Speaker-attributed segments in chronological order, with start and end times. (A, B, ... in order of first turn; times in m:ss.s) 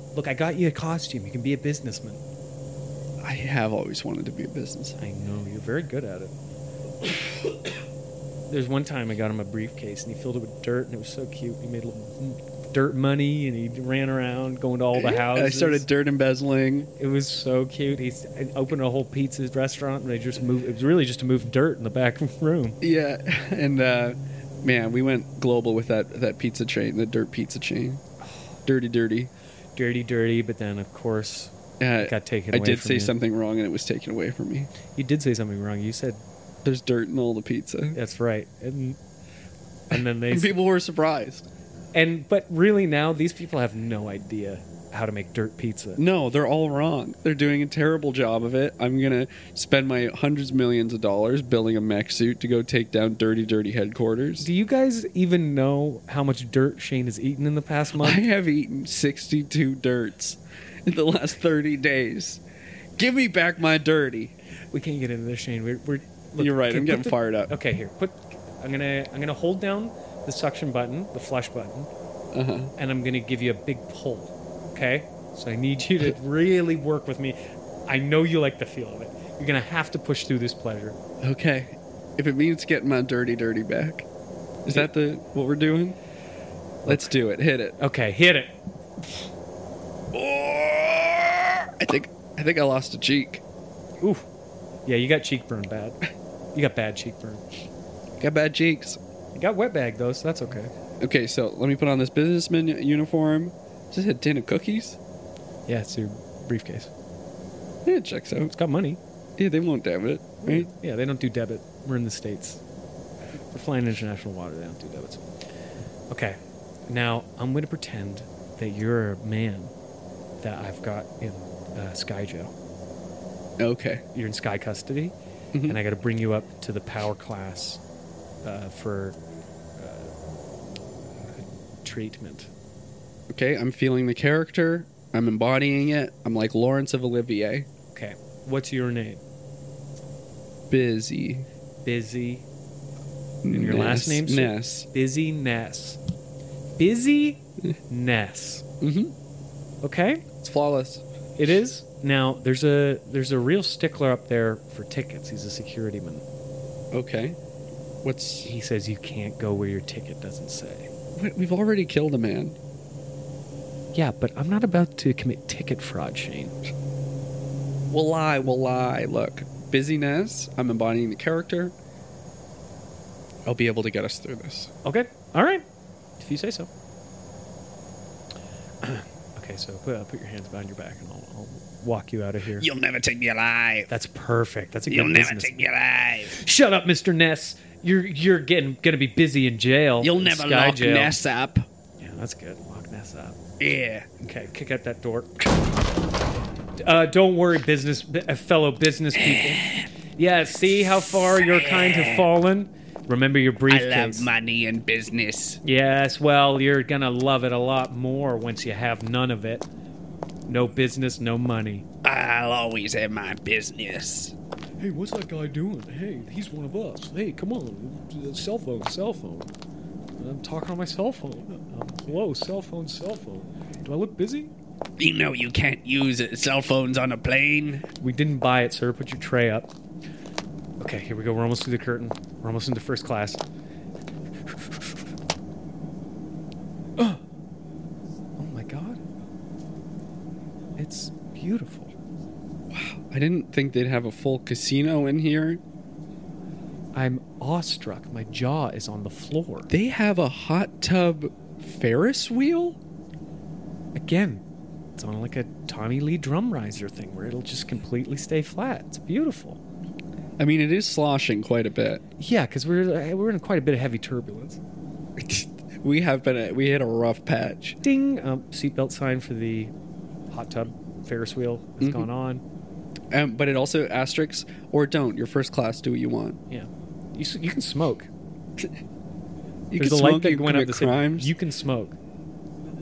0:00.1-0:02.2 A
0:03.2-0:05.0 B
0:05.0-0:06.3 A
0:08.5-0:15.9 A
0:14.9-0:16.9 B
0:17.0-0:22.8 A
0:22.8-0:28.0 B
0:28.6-0:29.3 B
0:29.8-0:33.2 A
0:31.8-0:34.7 B
0:34.9-0:36.2 A
0:36.6-0:38.0 B
0:37.9-0:39.0 A
0:39.9-0:40.5 A
0:39.9-0:41.4 B
0:41.9-0:46.0 A
0:46.0-0:54.5 B
0:54.4-0:58.2 A
0:58.0-1:02.4 B
1:03.0-1:04.3 B
1:04.7-1:11.9 A
1:06.4-1:07.5 B
1:12.3-1:12.7 B
1:12.8-1:21.0 A
1:21.2-1:24.0 B
1:24.6-1:26.0 B
1:26.8-1:27.1 A
1:26.8-1:27.8 B
1:27.8-1:28.5 A
1:30.1-1:33.4 B
1:34.0-1:34.2 A
1:34.8-1:36.0 A
1:36.5-1:37.4 A
1:38.2-1:39.0 B
1:39.3-1:40.7 A
1:41.0-1:45.0 B
1:45.7-1:46.9 A
1:47.8-1:48.5 B
1:48.5-1:49.0 A
1:49.4-1:50.7 B
1:50.4-1:52.6 A
1:53.5-1:55.2 A
1:56.1-1:59.7 A
2:00.4-2:02.5 A
2:03.6-2:04.0 B
2:04.1-2:05.1 A
2:05.5-2:05.8 B
2:05.6-2:07.8 A
2:08.4-2:09.2 A
2:09.8-2:10.1 A
2:11.8-2:12.5 A
2:13.3-2:17.7 B
2:17.9-2:19.2 A
2:20.7-2:21.5 B
2:21.8-2:22.4 A
2:23.4-2:24.9 B
2:23.5-2:26.0 A
2:26.8-2:28.6 A
2:28.8-2:29.1 B
2:29.8-2:30.2 A
2:30.4-2:31.0 B
2:31.4-2:36.2 A
2:36.9-2:37.4 B
2:38.0-2:38.5 B
2:38.4-2:40.9 A
2:41.1-2:42.6 B
2:43.9-2:46.6 A
2:47.9-2:51.7 B
2:53.4-2:54.7 B
2:54.8-2:55.6 A
2:56.2-2:56.7 A
2:58.8-3:02.7 A
3:02.6-3:03.9 B
3:03.9-3:05.7 A
3:04.9-3:06.4 B
3:06.3-3:11.2 A
3:10.0-3:11.7 B
3:12.0-3:13.4 A
3:13.6-3:14.1 B
3:14.2-3:15.5 A
3:16.8-3:24.3 A
3:19.4-3:19.8 B
3:21.4-3:22.2 B
3:23.7-3:25.6 B
3:25.6-3:29.6 A
3:30.5-3:31.8 A
3:32.0-3:34.3 B
3:34.8-3:39.5 A
3:40.2-3:44.5 A
3:45.0-3:47.9 B
3:48.0-3:49.7 A
3:50.8-3:53.4 A
3:58.4-3:59.0 A
4:00.8-4:01.9 A
4:02.7-4:05.6 B
4:06.9-4:09.7 A
4:09.7-4:12.8 B
4:13.9-4:14.4 A
4:15.0-4:19.6 A
4:20.4-4:22.0 B
4:22.2-4:24.6 A
4:25.2-4:27.8 B
4:27.8-4:29.7 A
4:30.3-4:32.4 A
4:31.8-4:32.1 B
4:33.1-4:36.4 B
4:36.5-4:38.1 A
4:39.7-4:41.3 B
4:39.8-4:42.0 A